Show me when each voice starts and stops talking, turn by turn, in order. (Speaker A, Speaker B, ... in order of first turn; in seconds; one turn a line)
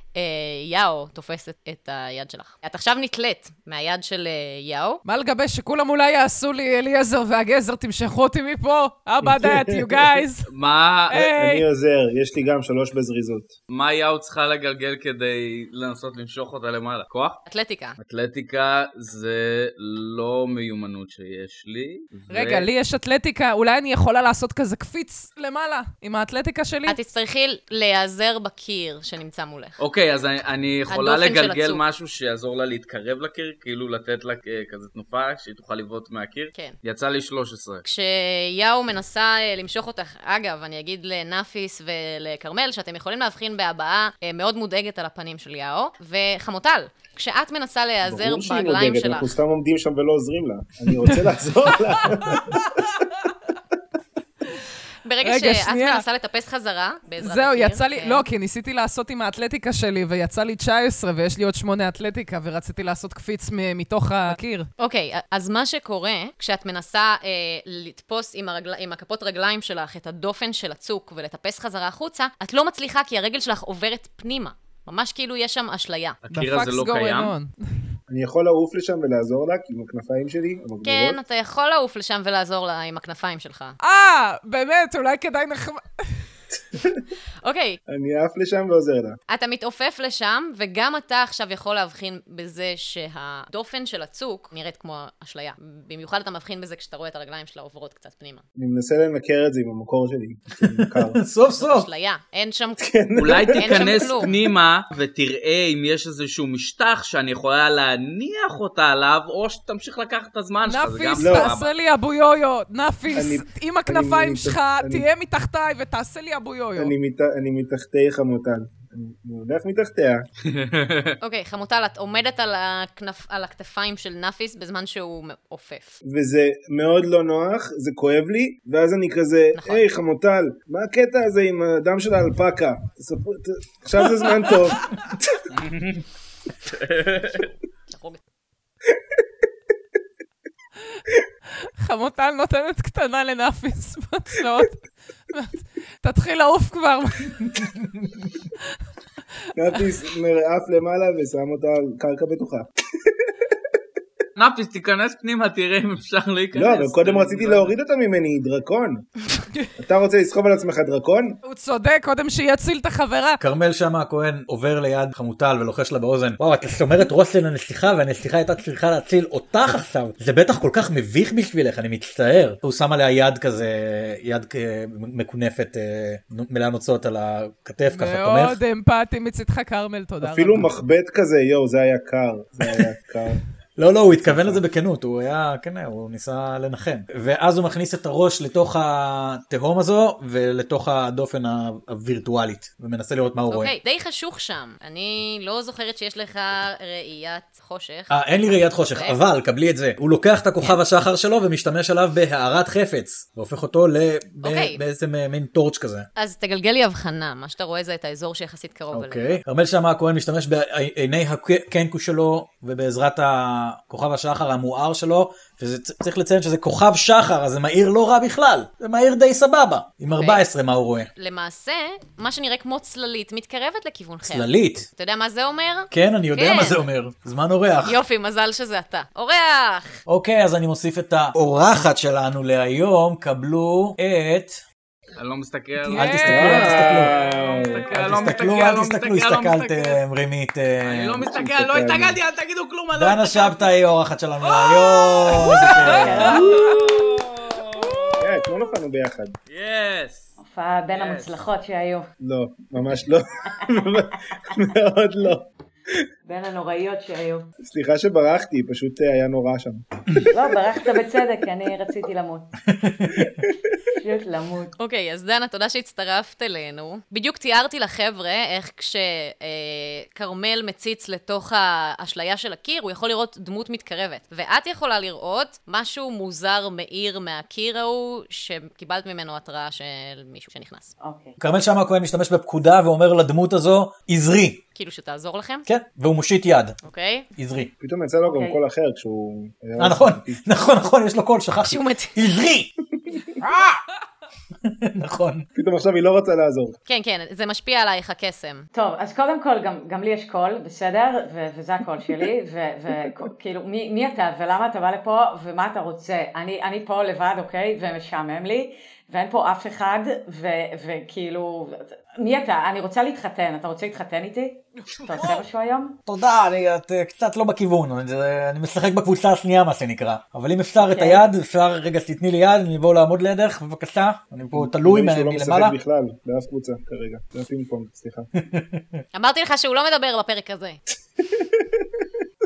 Speaker A: 0.1-5.0
Speaker B: 5.0-10.5
Speaker C: 9.2-10.1
Speaker D: 10.5-11.1
Speaker B: 11.1-11.7
Speaker C: 11.1-13.5
Speaker D: 13.7-17.4
Speaker A: 17.4-18.0
Speaker D: 18.0-22.7
Speaker B: 22.3-27.0
Speaker A: 26.9-29.8
Speaker D: 29.8-37.8
Speaker A: 30.9-31.8
Speaker A: 37.8-49.3
Speaker C: 48.0-52.9
Speaker B: 51.9-52.6
Speaker A: 55.0-58.2
Speaker B: 55.2-56.0
Speaker B: 57.2-64.7
Speaker A: 64.8-76.2
Speaker D: 76.2-77.3
Speaker B: 76.3-77.5
Speaker C: 78.1-81.2
Speaker A: 80.8-83.8
Speaker B: 83.8-86.2
Speaker C: 86.7-87.0
Speaker A: 87.4-87.8
Speaker C: 87.9-89.2
Speaker A: 89.3-98.4
Speaker C: 98.5-101.2
Speaker E: 100.7-101.9
Speaker A: 101.5-102.8
Speaker C: 102.8-104.3
Speaker D: 103.2-111.7
Speaker A: 103.4-104.3
Speaker B: 110.6-116.9
Speaker C: 111.2-111.5
Speaker C: 113.1-115.0
Speaker C: 116.8-120.2
Speaker D: 120.4-121.2
Speaker A: 121.2-126.0
Speaker C: 126.0-135.4
Speaker A: 129.5-129.8
Speaker B: 134.7-135.0
Speaker D: 135.5-136.0
Speaker D: 136.7-137.4
Speaker A: 137.9-138.2
Speaker B: 141.6-147.5
Speaker C: 149.6-153.3
Speaker D: 154.3-157.7
Speaker C: 156.5-159.1
Speaker C: 159.8-161.4
Speaker B: 161.4-163.4
Speaker E: 163.4-178.6
Speaker B: 177.9-180.7
Speaker C: 180.2-183.4
Speaker E: 183.8-193.7
Speaker C: 184.2-184.6
Speaker A: 193.5-199.2
Speaker E: 198.1-206.1
Speaker A: 204.4-204.8
Speaker A: 206.2-209.4
Speaker E: 208.9-221.1
Speaker A: 220.1-220.4
Speaker A: 221.2-226.8
Speaker E: 224.2-224.8
Speaker E: 225.9-228.0
Speaker A: 227.8-229.9
Speaker E: 230.1-234.6
Speaker D: 235.2-240.0
Speaker B: 235.8-236.8
Speaker E: 235.9-237.1
Speaker C: 236.2-237.8
Speaker E: 237.9-241.2
Speaker D: 240.8-243.7
Speaker C: 241.3-242.2
Speaker E: 242.9-246.4
Speaker D: 245.2-248.4
Speaker B: 245.3-246.8
Speaker F: 245.8-246.6
Speaker C: 248.2-249.3
Speaker D: 249.5-250.3
Speaker F: 250.4-252.1
Speaker D: 250.9-251.3
Speaker C: 252.2-256.0
Speaker F: 256.2-257.5
Speaker C: 257.6-260.3
Speaker F: 260.3-262.5
Speaker E: 262.7-263.3
Speaker C: 263.3-263.7
Speaker F: 263.9-264.7
Speaker A: 264.8-280.9
Speaker F: 281.0-281.4
Speaker E: 281.4-284.6
Speaker A: 284.7-285.7
Speaker E: 285.6-286.8
Speaker A: 286.8-287.2
Speaker E: 287.4-287.7
Speaker C: 287.8-290.4
Speaker F: 288.2-288.6
Speaker E: 289.8-292.7
Speaker A: 291.6-292.1
Speaker C: 293.0-293.3
Speaker E: 293.4-293.8
Speaker E: 294.6-295.4
Speaker C: 295.5-296.8
Speaker A: 296.9-298.7
Speaker F: 298.7-316.0
Speaker B: 315.0-315.4
Speaker E: 316.1-325.7
Speaker F: 320.8-321.2
Speaker C: 324.5-328.3
Speaker E: 328.4-329.0
Speaker A: 329.1-330.8
Speaker C: 331.2-332.0